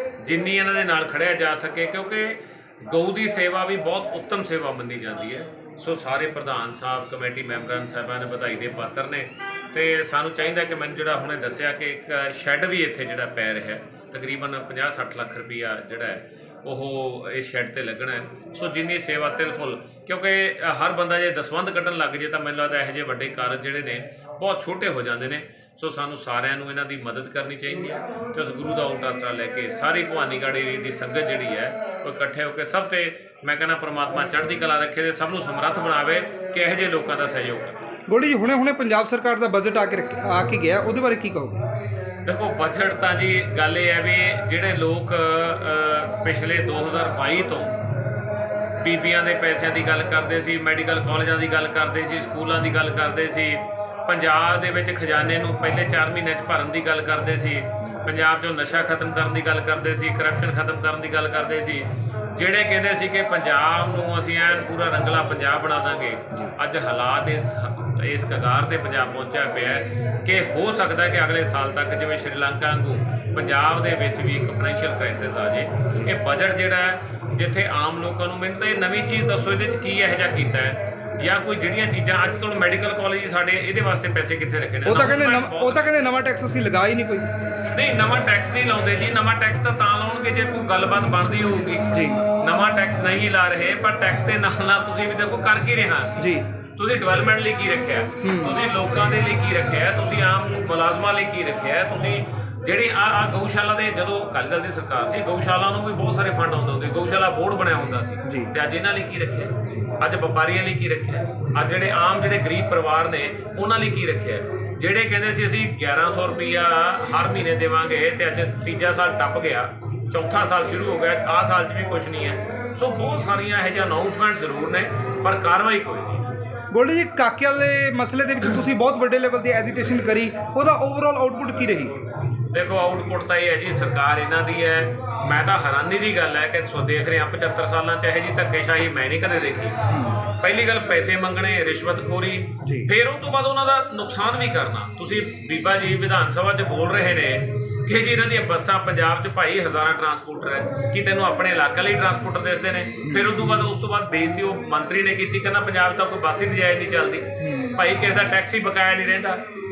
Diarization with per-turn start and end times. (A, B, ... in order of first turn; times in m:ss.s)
0:00.2-0:37.9 A
0:38.1-0:41.6 B
0:42.3-0:47.8 A
0:48.8-1:25.9 A
1:24.8-1:27.3 B
1:27.7-1:36.2 A
1:36.2-1:36.5 B
1:36.8-2:06.3 A
1:38.2-1:38.6 B
2:06.7-2:12.0 B
2:12.5-2:19.8 A
2:19.9-2:20.2 B
2:20.3-2:39.4 A
2:22.6-2:22.9 B
2:33.1-2:33.3 B
2:37.4-2:37.8 B